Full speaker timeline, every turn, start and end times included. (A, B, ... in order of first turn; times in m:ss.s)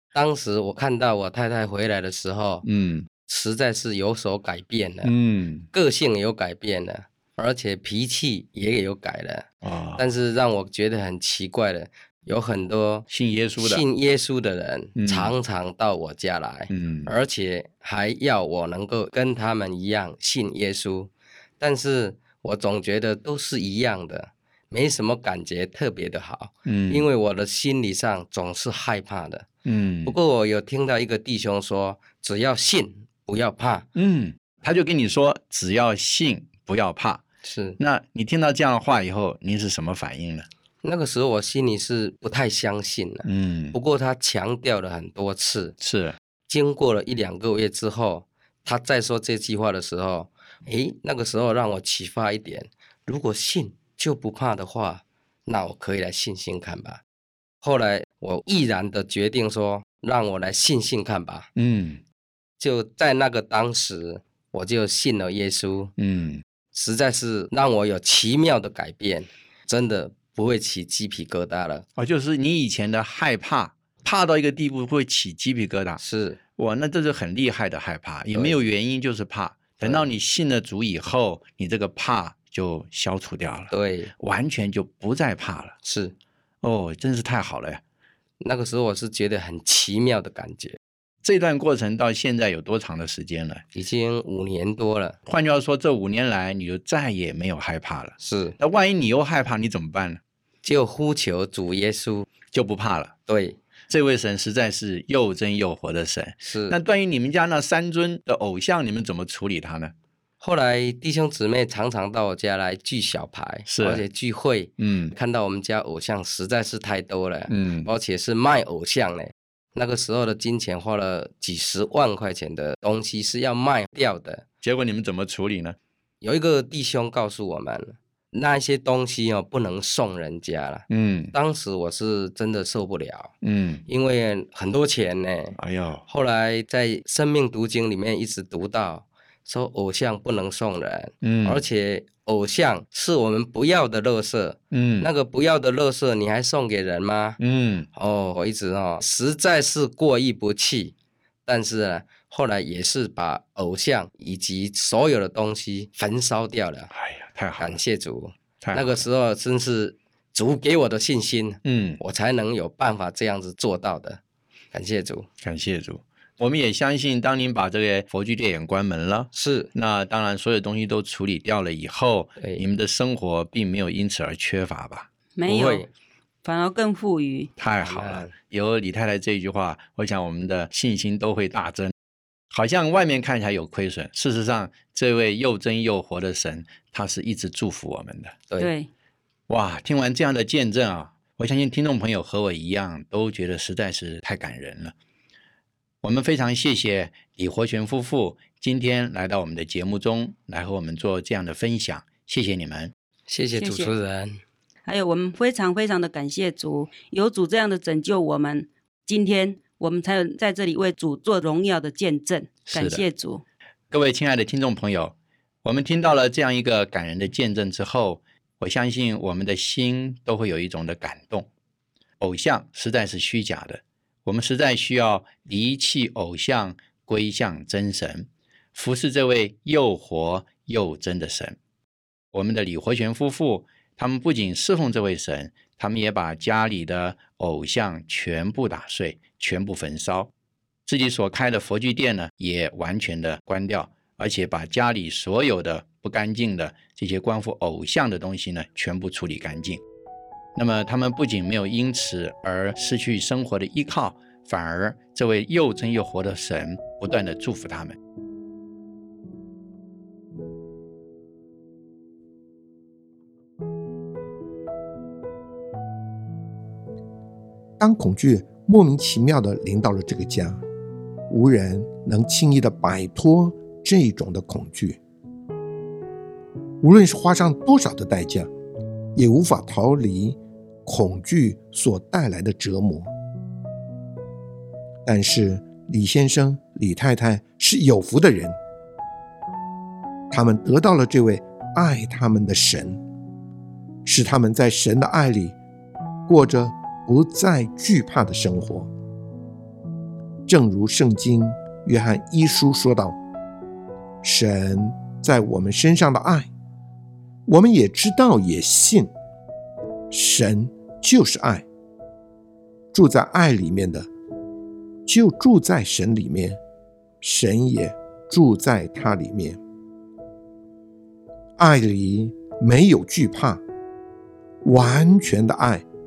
0:00.1-0:02.6 A
0:02.6-0:03.1 B
0:03.2-0:05.1 A
0:05.0-0:05.7 B
0:05.7-0:29.5 A
0:09.6-0:10.0 B
0:13.1-0:13.8 B
0:15.0-0:15.3 B
0:16.7-0:17.1 B
0:26.6-0:27.1 B
0:29.6-0:30.2 B
0:30.0-0:33.9 A
0:34.0-0:37.2 B
0:37.4-0:37.8 A
0:37.8-0:40.5 B
0:40.8-0:45.7 A
0:43.2-0:43.8 B
0:45.8-0:46.2 B
0:46.5-0:57.0 A
0:57.6-1:01.5 A
1:01.6-1:02.0 B
1:02.6-1:05.9 A
1:06.0-1:06.4 B
1:06.7-1:11.8 A
1:12.0-1:16.0 B
1:16.0-1:16.4 A
1:16.6-1:25.8 B
1:19.8-1:20.1 A
1:23.7-1:24.1 A
1:25.8-1:26.1 A
1:26.6-1:27.8 B
1:28.4-1:30.8 A
1:31.2-1:33.6 B
1:33.7-1:35.2 A
1:35.2-1:40.2 B
1:38.2-1:38.6 A
1:40.6-1:42.3 A
1:42.5-1:43.1 B
1:43.3-1:43.6 A
1:43.9-1:49.9 B
1:46.4-1:46.8 A
1:50.4-2:04.4 A
1:53.7-1:54.0 B
1:54.8-1:55.1 B
1:57.5-1:57.9 B
2:04.6-2:05.8 B
2:06.2-2:13.3 A
2:10.9-2:11.3 B
2:13.4-2:13.8 B
2:13.9-2:27.4 A
2:15.6-2:16.0 B
2:21.2-2:21.6 B
2:24.7-2:25.1 B
2:27.4-2:27.9 B
2:27.9-2:30.9 A
2:31.4-2:36.9 A
2:36.9-2:37.8 B
2:37.6-2:44.2 A
2:38.6-2:39.0 B
2:41.6-2:42.0 B
2:44.7-2:45.3 A
2:45.4-2:55.1 B
2:49.3-2:49.7 A
2:55.4-2:55.9 C
2:55.4-2:55.9 A
2:56.4-2:57.5 C
2:57.6-3:01.9 B
2:57.8-2:58.3 A
3:02.5-3:08.3 B
3:08.6-3:08.9 C
3:09.5-3:14.9 B
3:16.0-3:22.9 B
3:23.3-3:24.4 A
3:23.6-3:23.9 C
3:24.8-3:33.4 C
3:32.7-3:33.0 B
3:33.9-3:41.5 B
3:42.2-3:51.6 B
3:52.3-4:00.3 B
4:00.8-4:09.8 B
4:10.5-4:18.0 B
4:27.8-4:30.6 D
4:31.3-4:35.0 D
4:36.8-4:38.5 D
4:39.1-4:43.1 D
4:45.0-4:48.6 D
4:50.3-4:53.0 D
4:54.0-4:55.6 D
4:56.2-4:58.9 D
5:00.5-5:03.2 D
5:04.2-5:06.5 D
5:07.5-5:09.1 D
5:10.1-5:11.6 D
5:12.9-5:14.1 D
5:15.0-5:16.6 D
5:17.2-5:19.6 D
5:21.6-5:23.6 D
5:24.6-5:25.8 D